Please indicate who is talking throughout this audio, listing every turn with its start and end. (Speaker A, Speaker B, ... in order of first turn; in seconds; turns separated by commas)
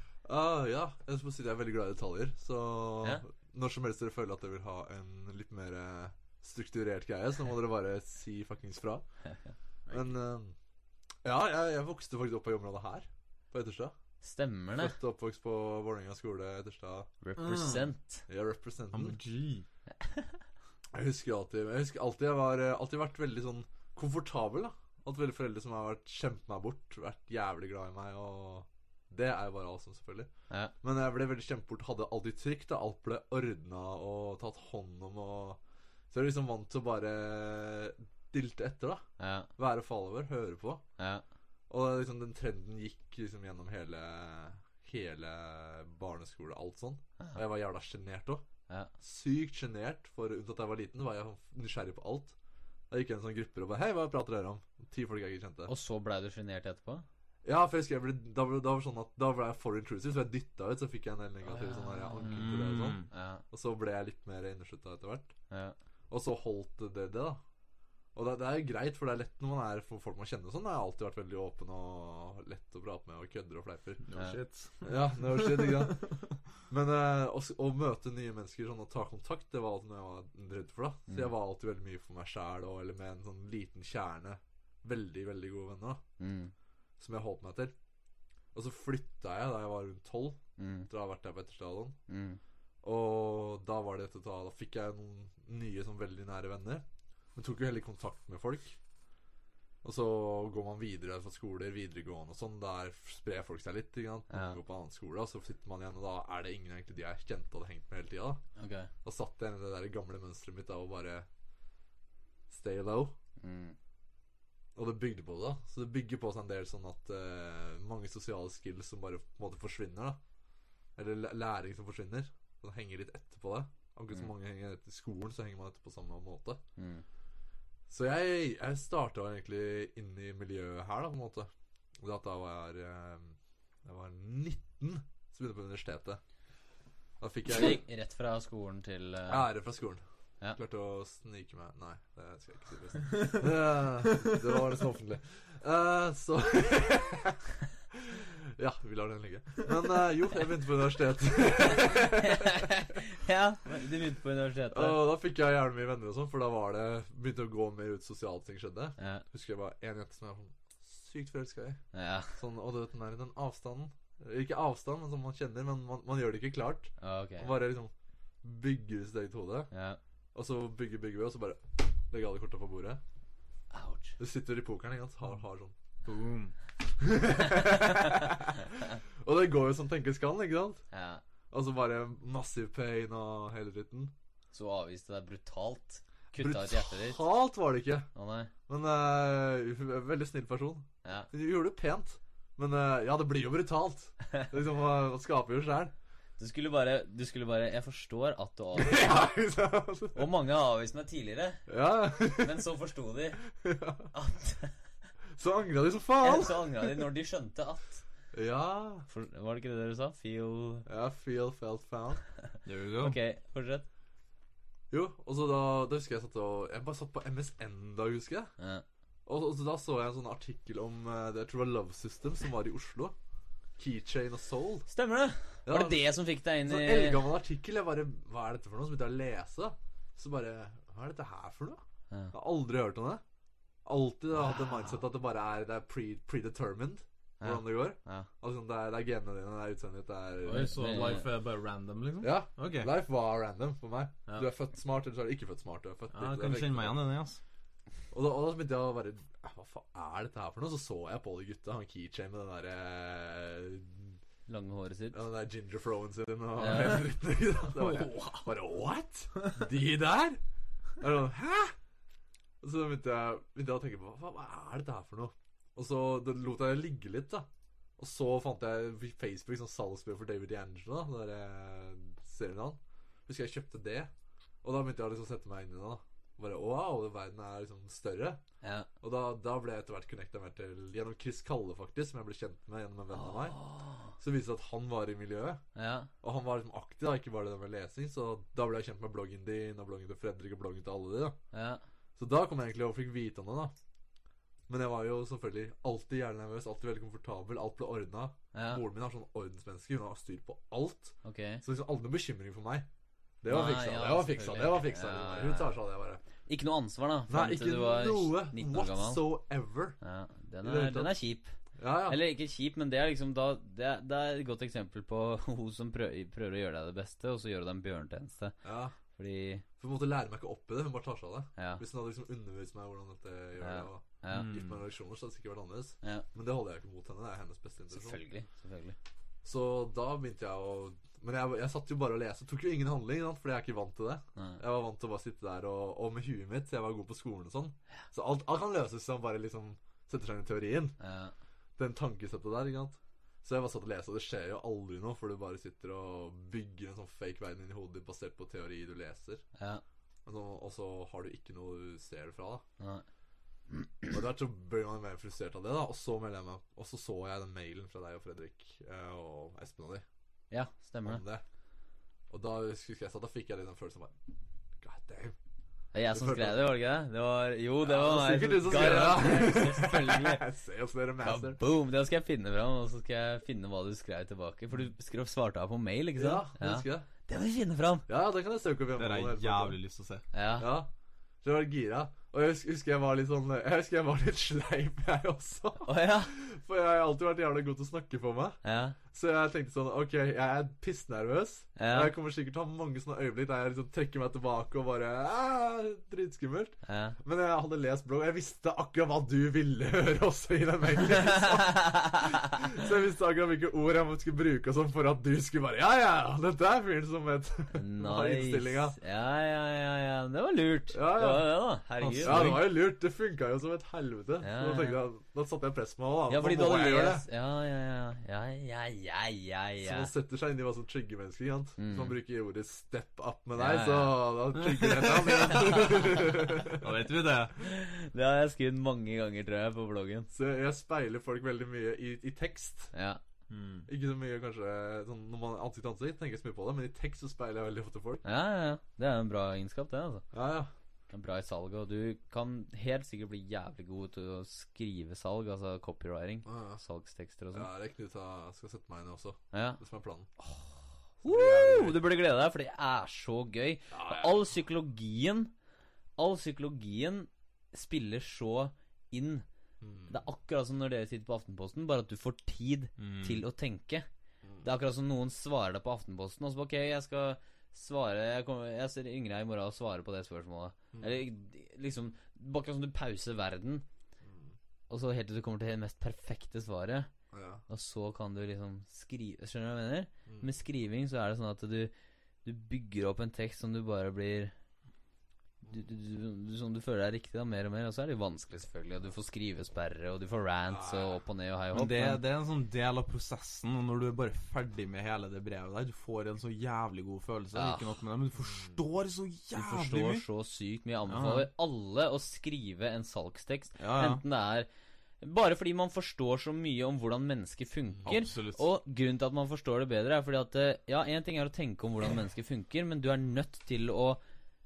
Speaker A: 0.2-9.0, Speaker A: 9.9-10.5, Speaker A: 11.2-13.9, Speaker B: 14.2-14.9, Speaker A: 14.7-17.1, Speaker B: 17.2-18.2, Speaker C: 17.4-17.9, Speaker A: 18.3-19.2, Speaker C: 18.9-19.6, Speaker B: 20.0-20.3, Speaker A: 20.9-30.3, Speaker A: 30.8-35.6, Speaker A: 36.1-39.0, Speaker B: 39.2-39.5, Speaker A: 39.6-40.8, Speaker B: 41.0-41.2, Speaker A: 41.7-48.4, Speaker A: 49.0-52.3, Speaker A: 52.9-55.7, Speaker B: 55.7-57.0, Speaker A: 57.4-65.3, Speaker B: 61.4-62.5, Speaker C: 62.2-63.1, Speaker B: 63.1-63.4, Speaker B: 65.5-65.8, Speaker A: 66.1-67.4, Speaker A: 68.1-74.0, Speaker C: 74.0-75.9, Speaker A: 74.8-86.0, Speaker B: 86.2-86.5, Speaker A: 87.0-87.7, Speaker A: 88.5-92.0, Speaker B: 90.6-90.9, Speaker B: 92.1-92.4, Speaker A: 92.8-98.8, Speaker A: 99.8-108.4, Speaker B: 104.3-104.6, Speaker B: 108.6-108.9, Speaker A: 109.0-111.2, Speaker A: 112.5-113.1, Speaker B: 113.4-113.8, Speaker A: 114.8-120.2, Speaker A: 121.0-126.6, Speaker B: 126.8-127.0, Speaker A: 127.9-136.2, Speaker A: 137.2-137.8, Speaker B: 137.5-139.5, Speaker A: 139.3-140.0, Speaker A: 140.5-152.7, Speaker B: 151.8-155.0, Speaker A: 154.7-161.8, Speaker B: 159.0-159.2, Speaker B: 161.9-162.3, Speaker A: 162.3-167.9, Speaker B: 167.0-167.5, Speaker A: 168.4-169.7, Speaker B: 169.7-170.0, Speaker A: 170.3-173.0, Speaker B: 173.7-174.2, Speaker A: 174.2-175.7, Speaker C: 176.0-176.5, Speaker A: 177.0-180.8, Speaker B: 180.9-181.2, Speaker A: 181.5-184.1, Speaker B: 184.5-187.2, Speaker A: 186.4-188.1, Speaker B: 188.1-188.5, Speaker A: 188.7-195.9, Speaker B: 191.0-191.3, Speaker B: 196.4-199.2, Speaker A: 198.7-200.2, Speaker B: 200.1-201.6, Speaker A: 201.7-202.7, Speaker B: 202.2-203.4, Speaker A: 203.5-204.1, Speaker B: 204.1-204.8, Speaker A: 205.3-207.1, Speaker B: 206.2-208.0, Speaker A: 208.3-209.1, Speaker B: 209.1-210.8, Speaker A: 210.8-212.2, Speaker B: 212.5-213.8, Speaker C: 212.6-213.2, Speaker A: 214.9-218.5, Speaker B: 218.6-218.8, Speaker A: 219.2-223.1, Speaker A: 223.8-224.9, Speaker B: 224.9-227.3, Speaker A: 225.7-233.2, Speaker A: 233.8-241.2, Speaker B: 234.4-235.0, Speaker B: 237.4-238.3, Speaker C: 240.4-242.9, Speaker B: 240.6-241.3, Speaker A: 242.2-247.0, Speaker C: 246.1-247.4, Speaker A: 248.1-254.2, Speaker B: 254.5-255.2, Speaker A: 255.1-260.4, Speaker B: 256.6-257.1, Speaker A: 261.0-261.7, Speaker A: 262.6-267.5, Speaker A: 268.0-274.1, Speaker A: 274.6-278.4, Speaker B: 278.6-278.9, Speaker A: 279.0-283.6, Speaker B: 283.1-284.1, Speaker A: 284.2-285.6, Speaker B: 285.8-286.1, Speaker A: 286.2-291.4, Speaker B: 291.5-291.8, Speaker A: 292.2-293.7, Speaker A: 294.7-302.9, Speaker B: 298.5-298.8, Speaker B: 301.2-301.6, Speaker A: 303.4-306.2, Speaker B: 303.5-305.8, Speaker B: 306.5-309.2, Speaker A: 307.3-310.0, Speaker B: 310.0-311.5, Speaker A: 310.6-311.1, Speaker A: 311.8-312.2, Speaker B: 312.1-318.6, Speaker A: 318.6-318.9, Speaker B: 319.1-319.6, Speaker A: 319.8-328.2, Speaker B: 321.6-321.8, Speaker B: 323.6-324.6, Speaker C: 324.3-324.8, Speaker B: 327.9-328.9, Speaker A: 329.4-340.9, Speaker B: 334.4-334.6, Speaker B: 341.0-341.3, Speaker A: 341.8-349.4, Speaker B: 349.6-349.8, Speaker A: 350.2-352.6, Speaker B: 352.8-353.0, Speaker B: 353.7-354.1, Speaker A: 354.1-360.0, Speaker B: 360.5-361.2, Speaker A: 361.0-361.4, Speaker A: 362.3-364.1, Speaker A: 364.8-365.4, Speaker B: 365.9-370.4, Speaker A: 366.1-366.6, Speaker A: 367.8-371.6, Speaker B: 371.2-378.1, Speaker A: 376.2-377.1, Speaker A: 378.1-379.8, Speaker C: 379.0-380.2, Speaker B: 380.3-380.7, Speaker A: 380.6-380.9, Speaker A: 381.4-388.6, Speaker B: 385.8-386.3, Speaker B: 388.6-389.0, Speaker A: 389.1-409.0, Speaker B: 391.8-392.1, Speaker B: 396.9-397.2, Speaker B: 401.1-402.5, Speaker B: 407.7-412.7, Speaker A: 410.9-411.5, Speaker C: 412.0-412.7, Speaker A: 412.2-417.3, Speaker B: 414.4-415.0, Speaker B: 416.3-420.1, Speaker A: 419.8-426.9, Speaker B: 421.8-422.2, Speaker B: 423.6-424.2, Speaker C: 424.6-427.6, Speaker B: 425.7-426.2, Speaker B: 427.6-430.3, Speaker A: 430.3-432.9, Speaker B: 432.9-433.2, Speaker C: 433.5-433.9, Speaker A: 433.9-438.2, Speaker B: 438.2-440.2, Speaker A: 440.3-440.7, Speaker B: 441.1-447.7, Speaker A: 446.4-446.8, Speaker A: 447.5-450.3, Speaker B: 449.5-449.8, Speaker B: 451.2-455.5, Speaker A: 451.2-452.0, Speaker A: 453.9-454.4, Speaker B: 456.2-459.4, Speaker A: 459.8-460.2, Speaker B: 460.1-464.1, Speaker C: 463.0-463.4, Speaker B: 464.6-473.8, Speaker A: 470.9-471.2, Speaker A: 474.2-474.5, Speaker B: 474.9-477.1, Speaker A: 477.3-477.6, Speaker B: 477.7-481.9, Speaker B: 482.4-484.5, Speaker B: 485.7-492.2, Speaker A: 490.7-491.2, Speaker C: 491.7-500.2, Speaker B: 497.5-497.9, Speaker B: 499.5-504.7, Speaker C: 501.1-501.5, Speaker C: 503.8-504.2, Speaker B: 505.2-514.2, Speaker C: 508.0-508.6